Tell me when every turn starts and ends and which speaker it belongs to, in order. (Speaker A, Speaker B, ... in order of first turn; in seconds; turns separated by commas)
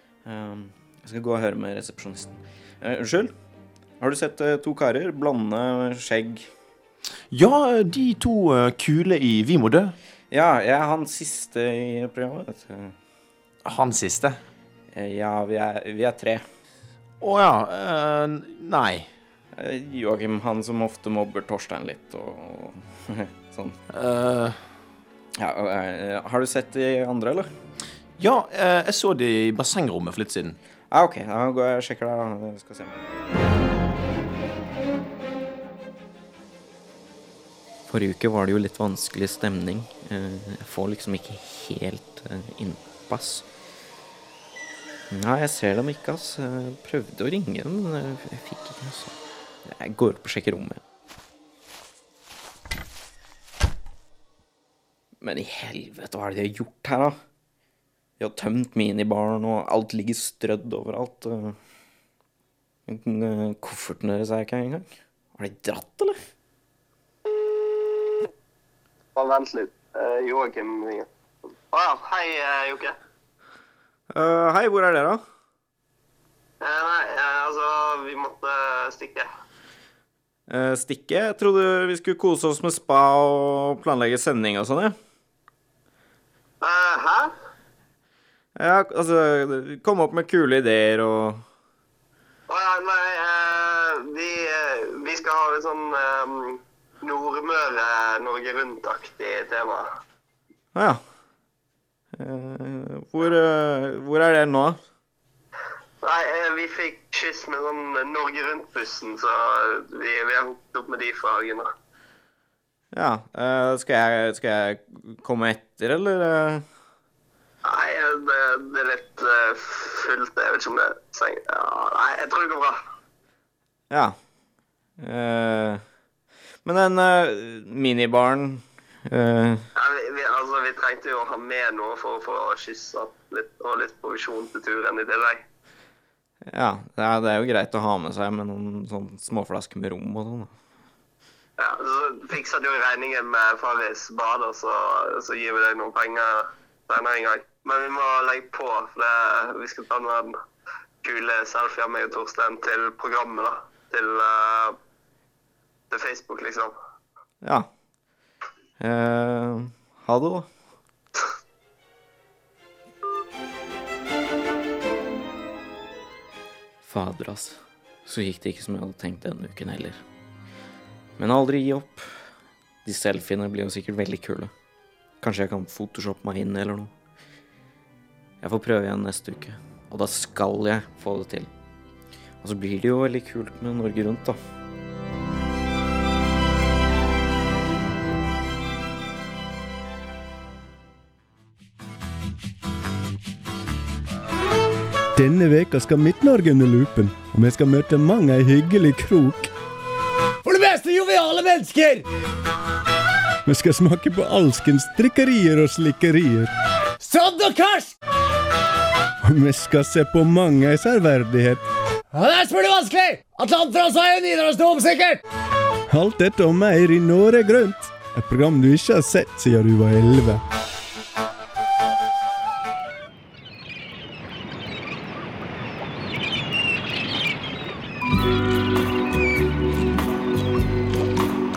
Speaker A: 0.2-3.3, Speaker A: 4.0-6.5, Speaker B: 7.3-9.9, Speaker A: 10.3-12.9, Speaker B: 13.6-14.4, Speaker A: 14.9-16.4, Speaker B: 17.2-19.1, Speaker A: 19.6-23.8, Speaker B: 23.9-24.6, Speaker A: 25.4-27.5, Speaker B: 28.2-30.6, Speaker A: 30.9-33.0, Speaker A: 37.9-43.4, Speaker A: 45.1-50.8, Speaker A: 55.2-57.2, Speaker A: 58.2-61.5, Speaker A: 62.9-66.2, Speaker C: 69.1-71.1, Speaker C: 71.7-72.9, Speaker A: 74.1-75.2, Speaker C: 76.6-79.2, Speaker A: 80.5-84.9, Speaker C: 86.6-87.3, Speaker A: 88.6-91.4, Speaker C: 92.5-99.9, Speaker A: 100.7-101.0, Speaker A: 102.2-104.8, Speaker C: 106.0-111.7, Speaker A: 112.9-116.6, Speaker C: 117.6-122.8, Speaker A: 125.0-125.8, Speaker A: 126.6-129.6, Speaker C: 129.8-135.4, Speaker A: 136.5-140.5, Speaker C: 141.6-150.3, Speaker C: 151.0-154.8, Speaker C: 155.9-156.7, Speaker A: 158.8-160.5, Speaker A: 166.8-170.0, Speaker A: 171.2-172.1, Speaker A: 172.8-174.5, Speaker A: 175.2-176.9, Speaker A: 178.4-181.5, Speaker A: 182.4-184.4, Speaker D: 195.2-199.5, Speaker D: 200.4-200.9, Speaker E: 200.5-202.0, Speaker D: 201.5-201.9, Speaker D: 203.5-207.1, Speaker E: 207.1-207.9, Speaker D: 209.2-211.6, Speaker D: 212.1-212.6, Speaker E: 212.2-215.2, Speaker D: 215.9-220.4